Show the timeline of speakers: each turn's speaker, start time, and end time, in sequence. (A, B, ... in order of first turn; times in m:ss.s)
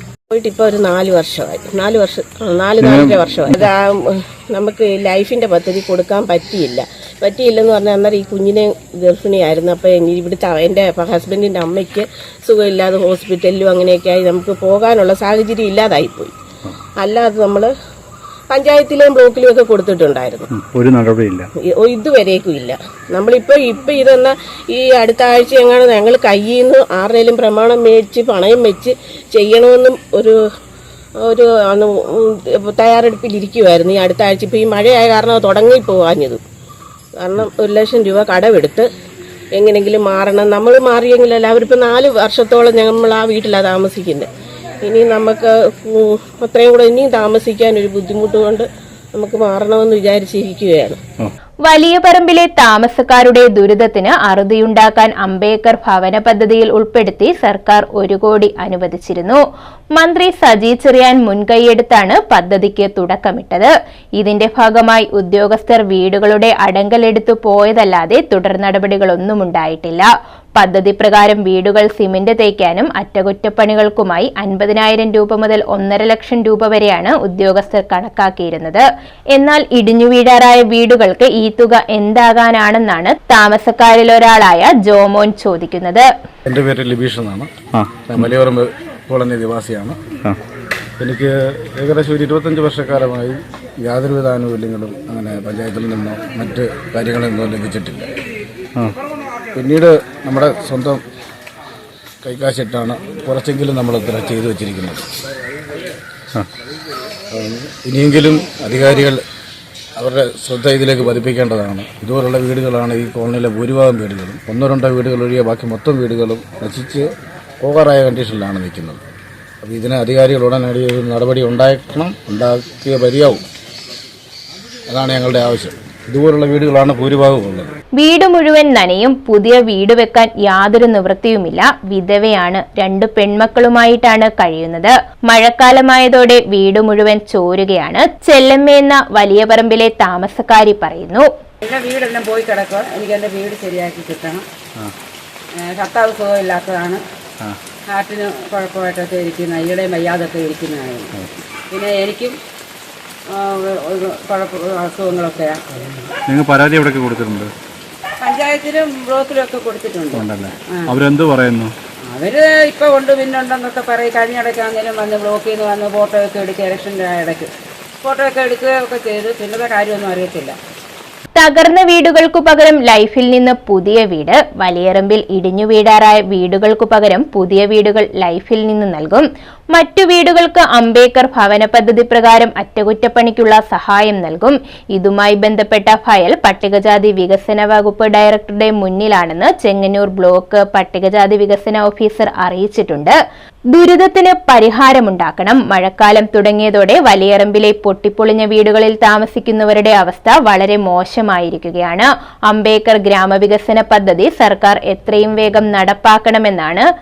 0:00.3-0:16.3 A
0:02.8-0:03.2 B
0:17.0-0:17.7 A
0:18.5-0:20.5 A
0:20.8-0:21.5 B
0:21.7-0:30.4 A
0:31.2-0:36.4 A
0:37.2-0:38.9 A
0:39.6-0:44.3 A
0:44.8-0:51.0 A
0:51.7-0:59.4 C
1:00.0-1:18.8 C
1:19.3-1:26.1 C
1:26.4-1:27.5 D
1:28.0-1:30.0 D
1:31.0-1:38.1 D
1:39.5-1:41.0 D
1:42.2-1:45.1 D
1:47.3-1:49.2 D
1:50.0-1:57.1 D
1:57.6-1:59.0 D
1:59.6-2:03.4 D
2:04.9-2:07.7 D
2:08.0-2:21.2 C
2:21.6-2:24.4 E
2:25.5-2:27.0 E
2:27.9-2:31.1 E
2:31.7-2:32.4 E
2:33.3-2:35.6 E
2:36.3-2:37.5 B
2:38.2-2:40.9 E
2:40.1-2:41.7 B
2:42.0-2:47.5 E
2:48.0-2:50.6 E
2:51.4-3:13.1 C
3:13.7-3:26.8 C